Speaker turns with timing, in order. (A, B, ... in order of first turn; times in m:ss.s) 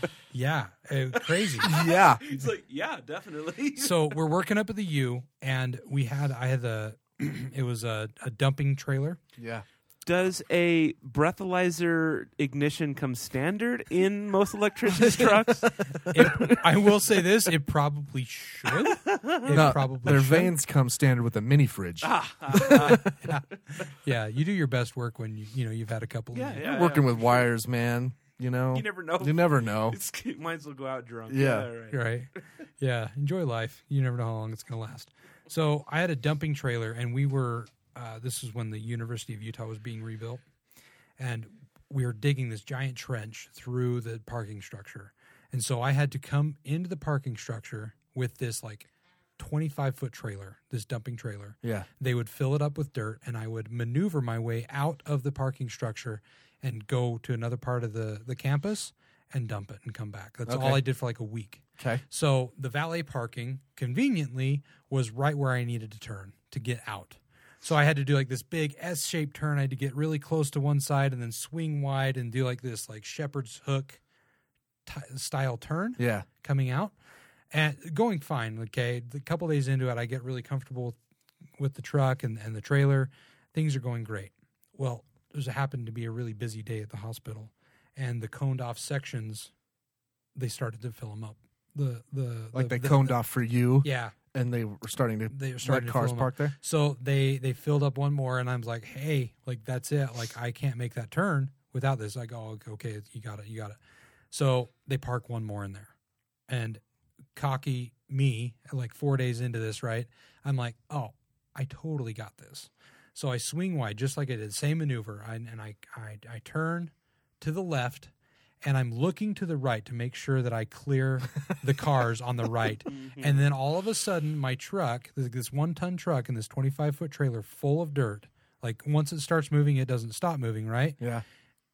0:00.3-0:01.7 A
0:01.6-0:04.2 B
0:01.6-0:02.2 C
0:03.8-0:09.2 A
0:09.4-0:09.6 C
0:10.0-0:16.6 B
0:16.1-0:20.5 A
0:18.9-0:19.7 B
0:19.5-0:23.1 C
0:22.0-0:23.1 B
0:22.7-0:26.6 A
0:26.3-0:27.5 B
0:26.6-0:30.0 C
0:28.7-0:32.0 B
0:31.3-0:31.7 C
0:31.9-0:40.4 A
0:41.2-1:14.0 A
1:00.4-1:00.8 C
1:01.8-1:02.0 C
1:14.8-1:16.9 A
1:16.0-1:16.2 C
1:17.5-1:21.0 A
1:21.6-1:29.5 A
1:30.4-1:33.2 A
1:32.5-1:36.5 C
1:33.8-1:34.2 A
1:35.3-1:43.8 A
1:44.3-1:45.9 A
1:46.5-1:46.8 A
1:47.3-1:58.1 A
1:58.6-2:11.0 A
2:02.9-2:03.4 B
2:11.0-2:11.2 C